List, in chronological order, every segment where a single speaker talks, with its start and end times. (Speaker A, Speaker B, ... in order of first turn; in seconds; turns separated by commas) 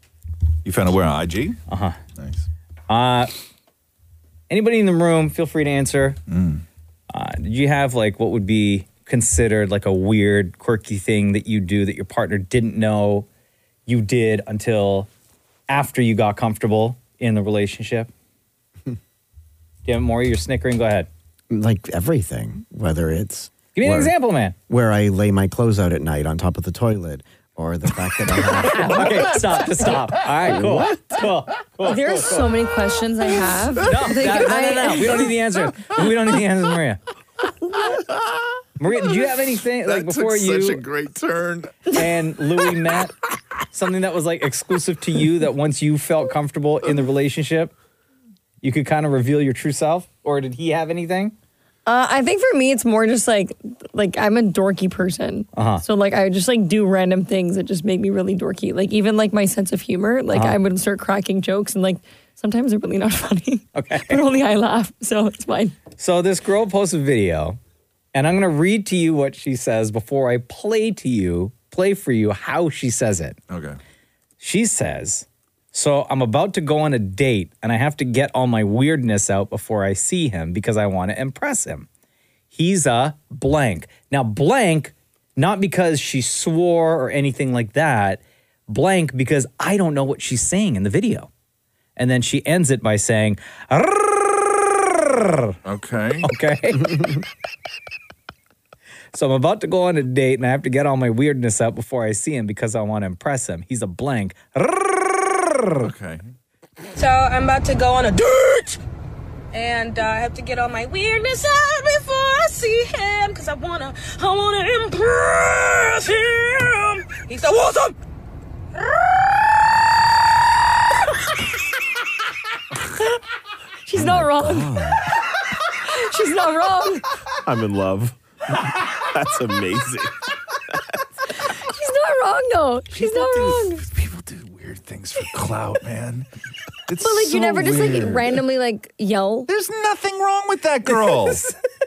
Speaker A: 0.7-1.6, Speaker B: 1.7-2.0, Speaker A: 2.2-2.5, Speaker B: 2.9-3.3, Speaker B: 4.5-6.2, Speaker A: 6.3-6.6, Speaker B: 7.1-13.3, Speaker B: 13.9-15.1, Speaker B: 15.7-18.1, Speaker B: 19.9-21.1, Speaker C: 21.5-24.1, Speaker B: 23.8-24.6, Speaker C: 24.7-29.3, Speaker B: 28.6-32.5, Speaker D: 31.9-35.3, Speaker B: 33.8-37.0, Speaker A: 37.9-38.3, Speaker B: 38.8-40.8, Speaker A: 39.0-39.3, Speaker A: 39.8-41.9, Speaker B: 41.9-43.1, Speaker B: 43.7-47.7, Speaker B: 48.6-51.3, Speaker D: 51.9-65.8, Speaker B: 55.5-55.8, Speaker B: 60.3-60.6, Speaker B: 63.8-64.2, Speaker B: 66.0-67.6, Speaker B: 68.1-73.4, Speaker A: 73.5-73.8, Speaker B: 74.4-81.9, Speaker B: 82.5-91.3, Speaker B: 92.0-95.6, Speaker A: 95.7-96.3, Speaker B: 96.2-96.9, Speaker C: 96.8-97.2, Speaker B: 99.1-105.8, Speaker A: 105.8-106.3, Speaker E: 107.0-108.8, Speaker E: 109.5-118.0, Speaker D: 123.9-124.7, Speaker C: 124.0-125.0, Speaker D: 125.9-127.0, Speaker F: 127.5-130.1, Speaker D: 131.7-133.8, Speaker A: 132.9-136.3, Speaker A: 136.9-138.4, Speaker D: 137.0-139.5, Speaker A: 139.5-141.4, Speaker B: 140.9-141.5